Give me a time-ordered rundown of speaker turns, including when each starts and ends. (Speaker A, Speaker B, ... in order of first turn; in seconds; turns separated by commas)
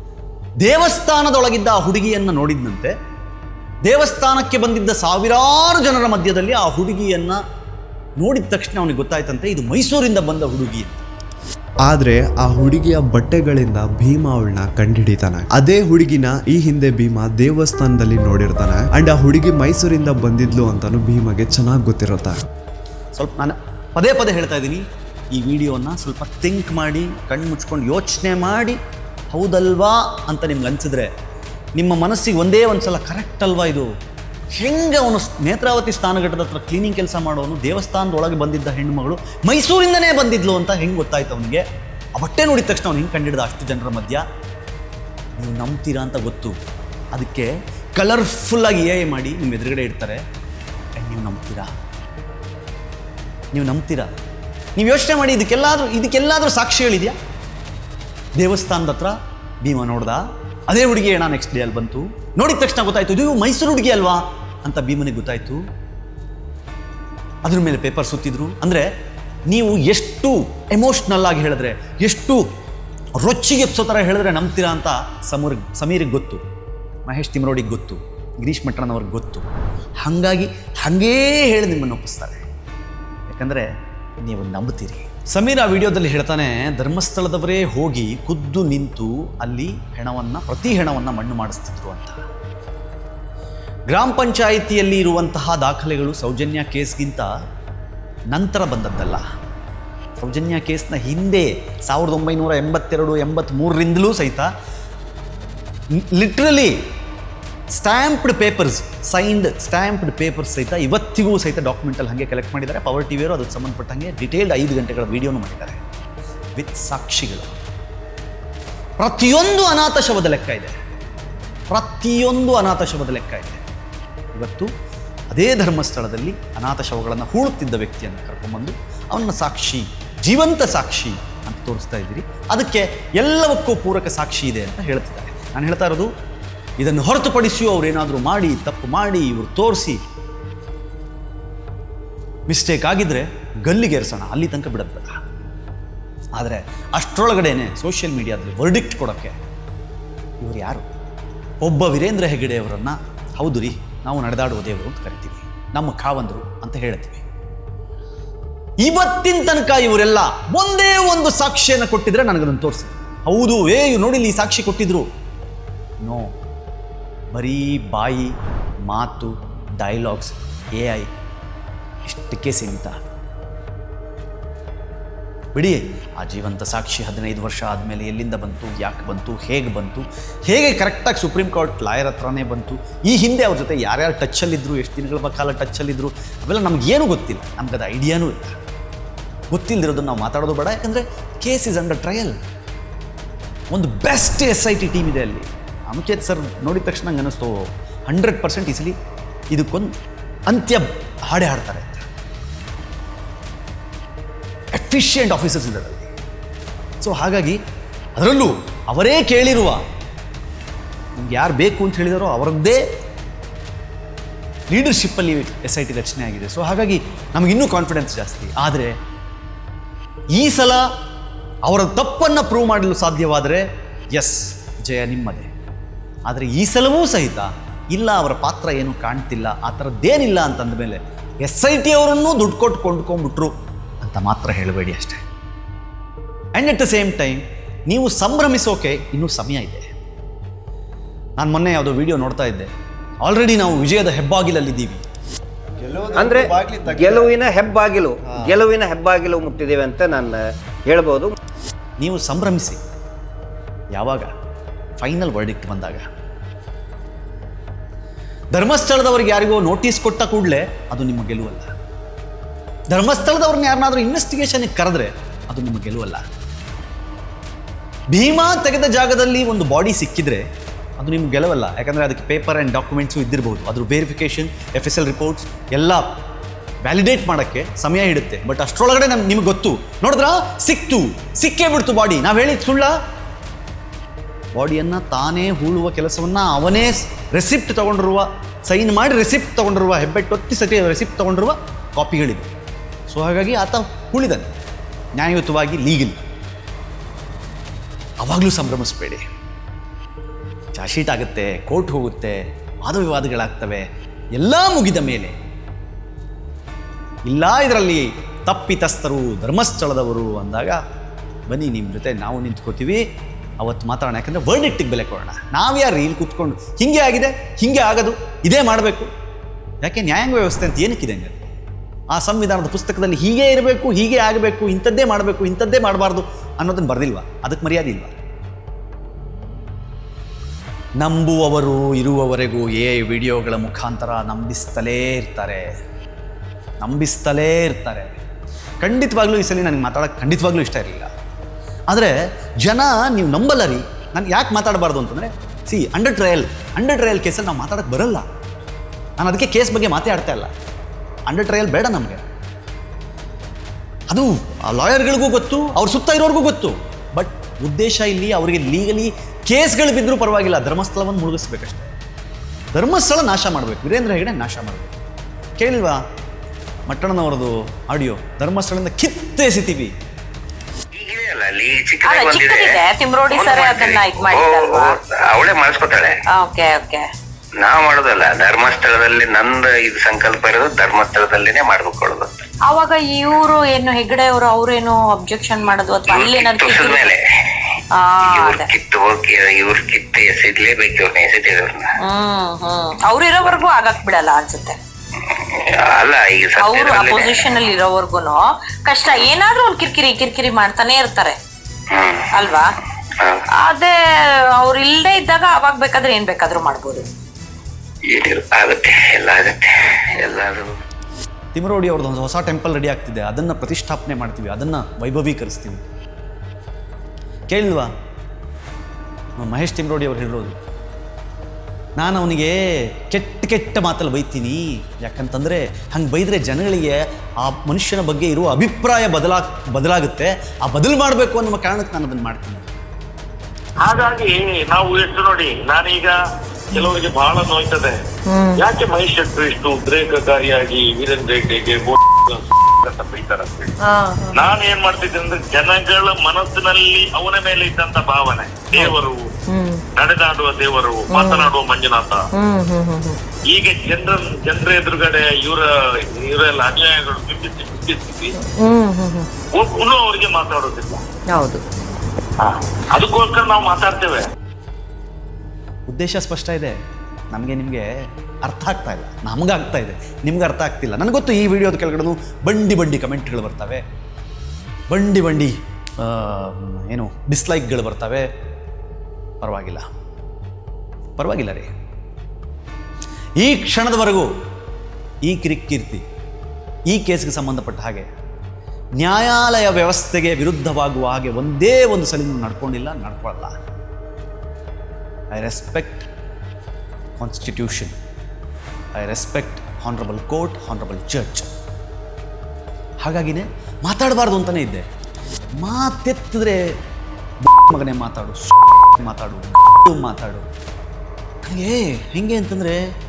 Speaker A: 0.6-2.9, Speaker A: 3.9-7.4, Speaker A: 8.2-11.0, Speaker B: 11.8-22.4, Speaker A: 23.1-28.8, Speaker A: 29.3-31.1, Speaker A: 31.8-33.9, Speaker A: 34.5-41.6, Speaker A: 42.2-44.2, Speaker A: 45.4-46.6, Speaker A: 47.1-50.2, Speaker A: 51.0-51.7, Speaker A: 53.5-54.1, Speaker A: 54.8-57.1, Speaker A: 58.4-65.6, Speaker A: 67.4-68.9, Speaker A: 69.5-72.4, Speaker A: 73.2-76.4, Speaker A: 77.0-79.5, Speaker A: 80.0-82.4, Speaker A: 83.3-83.7, Speaker A: 84.2-92.2, Speaker A: 93.9-97.3, Speaker A: 98.3-99.2, Speaker A: 100.2-104.5, Speaker A: 105.9-106.9, Speaker A: 107.7-115.8, Speaker A: 116.6-117.5, Speaker A: 119.0-120.8, Speaker A: 121.7-123.6, Speaker A: 124.3-124.7, Speaker A: 125.3-136.1, Speaker A: 136.8-140.0, Speaker A: 142.5-145.2, Speaker A: 146.3-149.3, Speaker A: 150.4-150.9, Speaker A: 151.6-157.2, Speaker A: 158.8-165.1, Speaker A: 166.0-166.3, Speaker A: 167.3-168.3, Speaker A: 168.9-171.1, Speaker A: 172.1-173.0, Speaker A: 175.5-188.5, Speaker A: 189.5-192.4, Speaker A: 193.7-198.9, Speaker A: 199.5-199.9, Speaker A: 200.5-202.0, Speaker A: 204.7-206.1, Speaker A: 207.0-207.6, Speaker A: 208.2-209.8, Speaker A: 211.2-212.8, Speaker A: 214.7-218.9, Speaker A: 220.3-220.8, Speaker A: 221.7-225.5, Speaker A: 226.3-235.2, Speaker A: 236.5-239.9, Speaker A: 241.4-242.7, Speaker A: 243.2-245.0, Speaker B: 245.8-247.3, Speaker C: 246.1-251.3, Speaker A: 252.0-252.8, Speaker A: 253.9-254.3, Speaker A: 255.0-256.1, Speaker A: 258.5-261.7, Speaker A: 262.9-266.2, Speaker A: 268.1-270.5, Speaker A: 271.0-276.1, Speaker A: 276.8-282.9, Speaker A: 284.6-292.5, Speaker A: 293.1-294.5, Speaker A: 295.1-296.2, Speaker A: 298.2-299.2, Speaker A: 300.7-303.9, Speaker A: 304.4-305.3, Speaker A: 307.2-310.8, Speaker A: 311.5-313.0, Speaker A: 313.6-319.1, Speaker A: 319.8-321.5, Speaker A: 322.1-328.1, Speaker A: 331.0-335.7, Speaker A: 336.8-338.2, Speaker A: 338.8-341.1, Speaker A: 341.9-348.2, Speaker A: 349.2-350.5, Speaker A: 351.3-352.2, Speaker A: 354.1-361.9, Speaker A: 362.7-364.9, Speaker A: 365.6-366.0, Speaker A: 366.9-369.9, Speaker D: 370.9-376.1, Speaker E: 372.1-375.0, Speaker E: 376.3-377.0, Speaker D: 377.6-382.3, Speaker E: 382.7-387.1, Speaker D: 386.1-387.2, Speaker E: 387.9-388.7, Speaker D: 388.2-391.9, Speaker E: 392.0-394.8, Speaker D: 395.3-397.5, Speaker E: 396.6-401.4, Speaker D: 401.9-402.3, Speaker E: 402.3-402.7, Speaker E: 403.6-403.9, Speaker E: 404.6-407.0, Speaker D: 408.1-410.7, Speaker A: 411.5-415.8, Speaker A: 417.5-417.9, Speaker A: 419.4-420.6, Speaker A: 422.0-432.7, Speaker F: 433.8-436.2, Speaker F: 436.7-438.0, Speaker G: 438.3-438.6, Speaker F: 438.6-443.7, Speaker G: 443.8-444.4, Speaker F: 444.3-449.2, Speaker G: 449.5-449.8, Speaker F: 449.9-452.2, Speaker G: 451.1-451.5, Speaker G: 452.3-453.2, Speaker F: 453.5-458.3, Speaker G: 458.4-459.3, Speaker F: 459.5-461.0, Speaker G: 461.3-461.6, Speaker F: 462.4-464.2, Speaker A: 465.9-466.8, Speaker A: 467.3-473.8, Speaker A: 474.9-478.3, Speaker A: 479.4-479.9, Speaker A: 481.1-481.7, Speaker A: 483.4-484.3, Speaker A: 485.2-486.0, Speaker A: 486.9-488.1, Speaker A: 489.0-493.6, Speaker A: 495.3-496.1, Speaker A: 497.2-497.9, Speaker A: 498.9-501.5, Speaker A: 503.0-504.9, Speaker A: 505.6-506.8, Speaker A: 507.4-510.4, Speaker A: 511.4-512.8